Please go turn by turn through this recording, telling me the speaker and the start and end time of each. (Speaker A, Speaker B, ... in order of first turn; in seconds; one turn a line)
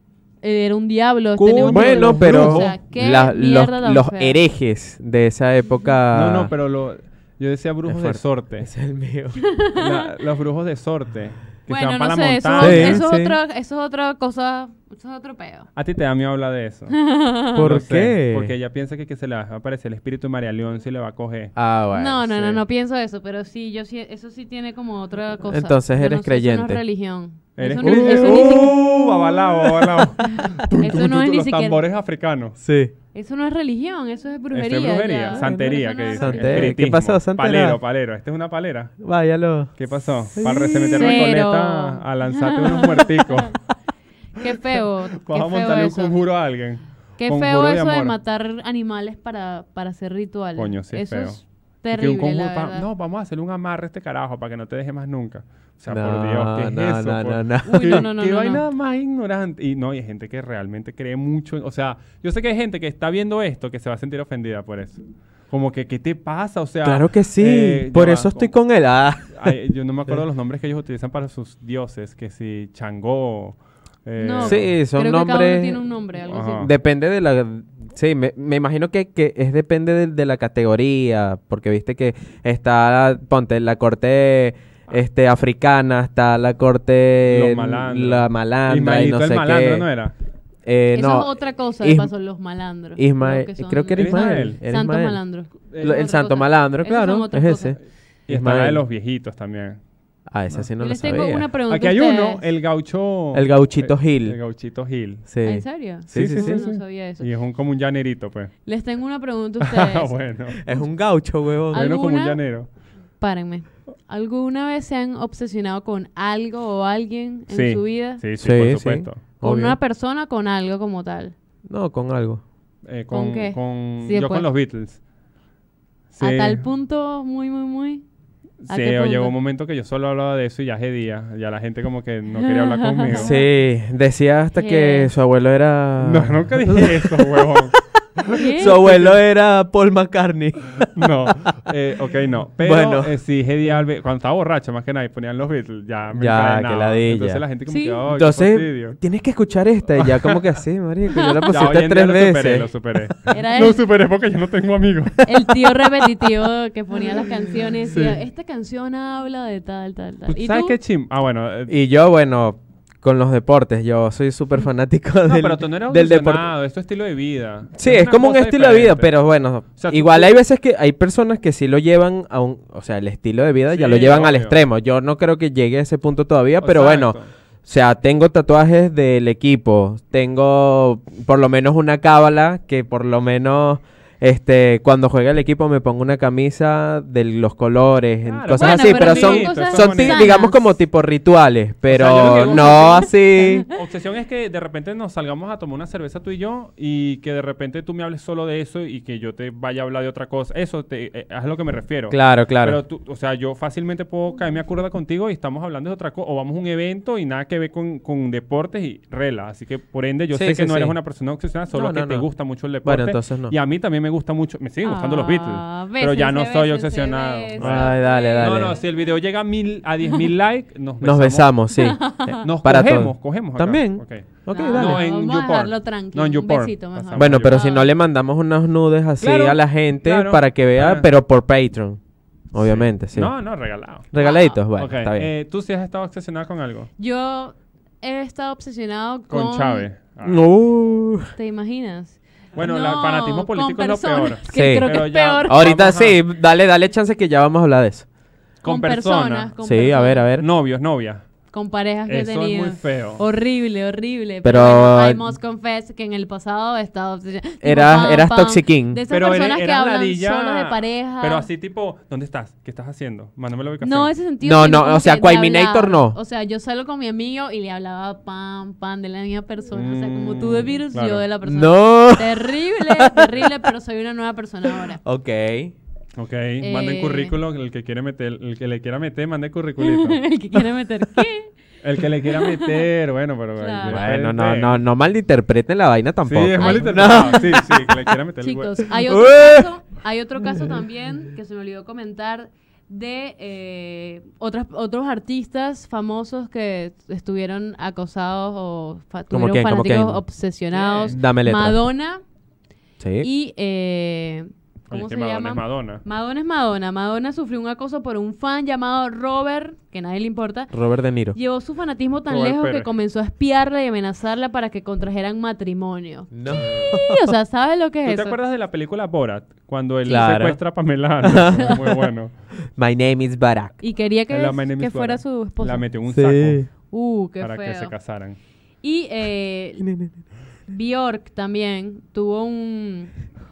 Speaker A: 0.4-4.4
Speaker B: 1.4-2.8
Speaker C: 1.6-6.5
Speaker B: 6.1-8.7
Speaker C: 7.8-9.4
Speaker A: 9.4-10.1
Speaker B: 9.7-13.0
Speaker A: 11.7-15.7
Speaker C: 12.6-13.4
Speaker B: 15.8-16.9
Speaker A: 16.9-17.7
Speaker B: 17.5-21.5
Speaker C: 17.5-18.5
Speaker C: 21.6-22.6
Speaker A: 21.9-28.8
Speaker C: 25.5-26.8
Speaker B: 27.6-32.6
Speaker C: 27.8-30.1
Speaker A: 30.2-31.8
Speaker C: 32.6-32.9
Speaker A: 33.1-36.7
Speaker B: 34.5-38.9
Speaker C: 35.4-37.8
Speaker C: 39.0-39.7
Speaker B: 39.8-43.6
Speaker C: 40.3-41.3
Speaker A: 40.8-43.5
Speaker A: 44.4-46.2
Speaker B: 45.2-48.1
Speaker A: 47.2-52.8
Speaker B: 50.5-68.5
Speaker C: 55.9-58.0
Speaker A: 57.6-58.6
Speaker C: 66.8-69.5
Speaker B: 69.3-74.8
Speaker A: 74.2-76.7
Speaker C: 74.4-75.8
Speaker B: 76.2-76.7
Speaker C: 76.5-89.9
Speaker B: 87.3-90.1
Speaker C: 90.6-92.1
Speaker A: 90.9-97.8
Speaker C: 93.0-95.2
Speaker B: 94.0-94.6
Speaker B: 95.7-96.0
Speaker C: 95.8-97.8
Speaker B: 98.3-99.8
Speaker C: 98.3-98.8
Speaker C: 100.3-101.5
Speaker A: 100.8-102.4
Speaker B: 101.7-105.2
Speaker C: 103.3-104.4
Speaker C: 105.3-106.6
Speaker A: 105.4-107.3
Speaker B: 106.1-108.5
Speaker A: 108.7-110.1
Speaker B: 109.6-110.6
Speaker C: 110.6-111.9
Speaker A: 111.7-112.4
Speaker B: 111.7-112.7
Speaker A: 113.2-118.2
Speaker B: 117.5-119.2
Speaker C: 118.4-119.8
Speaker A: 119.4-121.3
Speaker C: 121.7-122.4
Speaker B: 122.8-125.0
Speaker A: 123.1-124.5
Speaker B: 126.1-126.6
Speaker A: 126.2-128.0
Speaker B: 128.6-133.3
Speaker A: 128.7-129.3
Speaker A: 132.4-133.4
Speaker C: 133.1-137.8
Speaker A: 134.6-135.1
Speaker B: 136.0-139.2
Speaker A: 138.3-138.8
Speaker C: 138.5-141.3
Speaker B: 140.9-149.0
Speaker C: 142.6-143.1
Speaker C: 146.1-147.4
Speaker A: 147.7-148.0
Speaker C: 148.1-152.7
Speaker B: 150.0-150.4
Speaker A: 151.1-151.6
Speaker B: 151.5-155.3
Speaker A: 153.3-153.8
Speaker A: 155.2-160.8
Speaker B: 160.3-161.7
Speaker C: 161.7-166.4
Speaker B: 165.2-169.1
Speaker C: 167.8-193.7
Speaker B: 169.8-170.3
Speaker B: 173.7-174.6
Speaker B: 176.6-177.3
Speaker B: 188.2-190.4
Speaker A: 188.6-190.6
Speaker B: 191.9-221.7
Speaker A: 192.3-193.7
Speaker C: 202.1-202.8
Speaker C: 210.3-210.9
Speaker C: 211.7-212.3
Speaker C: 212.8-213.5
Speaker A: 214.8-218.8
Speaker C: 217.6-218.8
Speaker C: 221.0-225.0
Speaker A: 221.7-222.4
Speaker B: 222.3-227.6
Speaker A: 224.5-227.9
Speaker C: 227.2-232.0
Speaker B: 229.2-231.1
Speaker C: 232.5-233.3
Speaker B: 232.6-234.1
Speaker C: 234.1-235.3
Speaker A: 234.2-234.6
Speaker B: 234.8-236.9
Speaker A: 237.0-239.8
Speaker B: 239.3-240.4
Speaker C: 240.2-241.3
Speaker A: 241.3-245.7
Speaker B: 242.6-246.2
Speaker C: 244.5-244.9
Speaker C: 245.5-248.1
Speaker B: 248.6-249.5
Speaker A: 248.6-250.3
Speaker C: 249.6-250.4
Speaker B: 250.4-251.2
Speaker A: 251.5-261.4
Speaker B: 252.1-253.2
Speaker C: 254.4-255.3
Speaker C: 257.6-259.0
Speaker B: 259.1-264.1
Speaker A: 263.8-275.0
Speaker C: 264.4-266.2
Speaker B: 269.7-271.2
Speaker C: 271.4-273.5
Speaker C: 275.0-275.7
Speaker B: 276.2-280.2
Speaker A: 276.6-277.4
Speaker A: 279.8-281.5
Speaker B: 281.8-284.8
Speaker A: 282.2-282.9
Speaker A: 283.6-284.1
Speaker C: 283.8-288.2
Speaker B: 286.2-288.9
Speaker A: 286.6-287.6
Speaker A: 288.4-302.2
Speaker C: 289.0-289.7
Speaker C: 299.3-300.2
Speaker B: 300.7-301.2
Speaker C: 301.1-301.8
Speaker C: 303.0-303.3
Speaker A: 303.2-310.7
Speaker B: 304.9-306.0
Speaker C: 310.7-311.4
Speaker A: 311.3-318.3
Speaker B: 312.3-312.9
Speaker C: 316.3-317.3
Speaker B: 316.6-316.9
Speaker B: 318.0-322.3
Speaker C: 320.1-320.6
Speaker C: 321.2-322.1
Speaker C: 322.8-323.8
Speaker A: 323.8-325.8
Speaker B: 324.3-326.6
Speaker C: 326.1-326.7
Speaker A: 326.9-327.9
Speaker B: 327.4-328.4
Speaker A: 328.8-329.9
Speaker C: 329.8-330.1
Speaker A: 330.7-333.1